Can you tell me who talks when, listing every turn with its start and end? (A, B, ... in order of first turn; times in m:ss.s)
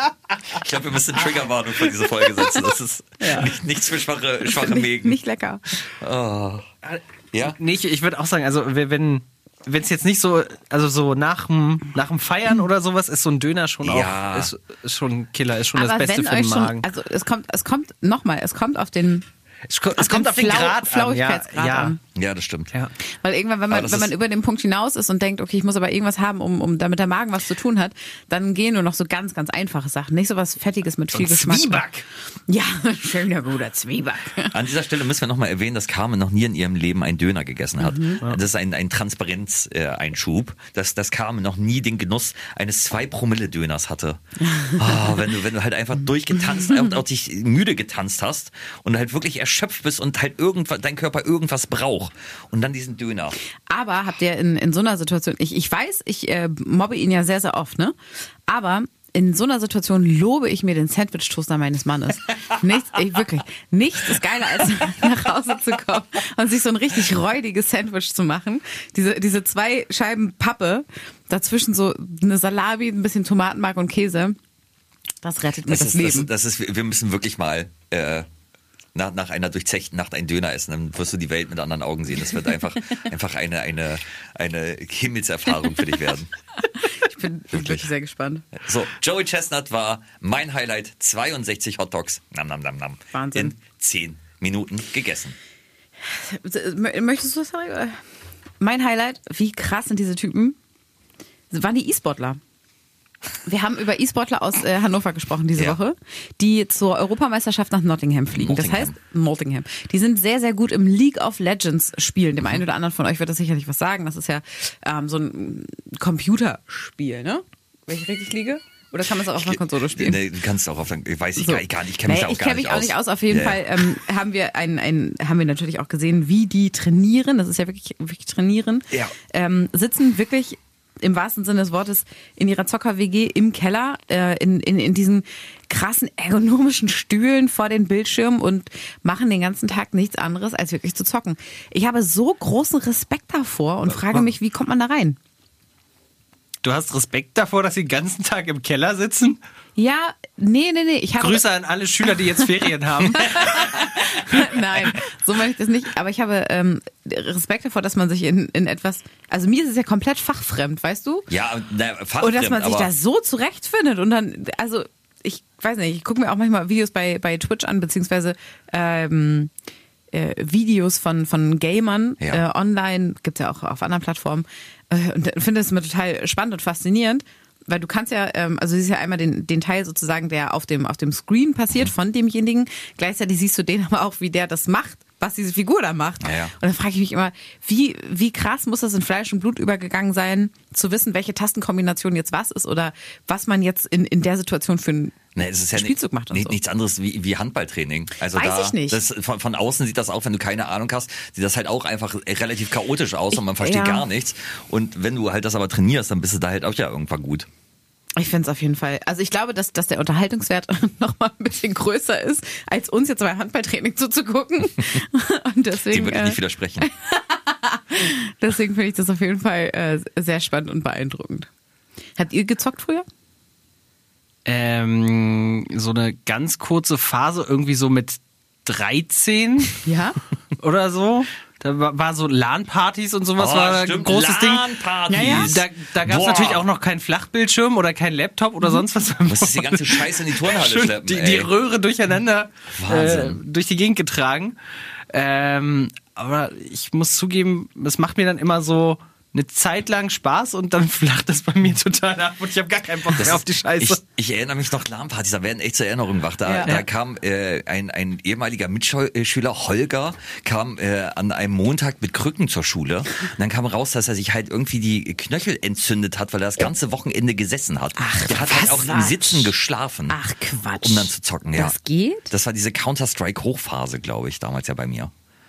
0:00.5-0:05.2 A
0:03.2-0:03.5 B
0:04.4-0:05.6 B
0:05.8-0:06.7 A
0:06.8-0:16.9 C
0:13.8-0:14.5 A
0:15.8-0:19.2 B
0:19.7-0:22.0 C
0:20.0-0:22.0 B
0:22.2-0:22.7 A
0:23.2-0:31.8 B
0:23.7-0:24.1 A
0:31.1-0:32.0 C
0:32.5-0:34.6 B
0:34.5-0:53.4 A
0:37.8-0:38.2 B
0:44.5-0:45.2 B
0:53.7-0:58.0 B
0:58.5-1:14.4 B
1:15.2-1:16.3 B
1:15.7-1:18.3 A
1:18.9-1:26.3 A
1:26.8-1:28.4 B
1:27.5-1:27.9 A
1:28.5-1:35.4 A
1:33.1-1:33.6 B
1:36.0-1:38.0 B
1:38.6-1:40.6 B
1:41.5-1:42.4 B
1:43.5-2:00.2 B
1:48.3-1:48.9 A
1:59.3-2:03.9 A
2:01.4-2:25.2 B
2:26.6-2:29.4 C
2:29.8-2:31.4 B
2:31.2-2:33.7 C
2:33.1-2:41.3 B
2:41.3-2:42.9 A
2:42.2-2:49.5 B
2:50.1-3:15.2 B
3:06.2-3:06.5 A
3:15.4-3:27.5 A
3:15.7-3:16.6 B
3:18.3-3:19.0 B
3:23.3-3:24.1 B
3:28.2-3:41.5 B
3:35.9-3:36.9 A
3:42.2-3:43.0 B
3:44.5-3:49.8 C
3:49.8-3:50.2 B
3:50.6-3:54.7 C
3:53.4-3:56.6 A
3:55.1-3:55.5 B
3:55.2-4:04.6 C
3:59.3-4:01.5 A
4:02.7-4:03.4 A
4:05.1-4:14.0 C
4:13.2-4:30.2 A
4:16.4-4:16.7 B
4:28.0-4:29.5 B
4:30.1-4:32.3 B
4:30.8-4:31.8 A
4:32.3-4:35.1 A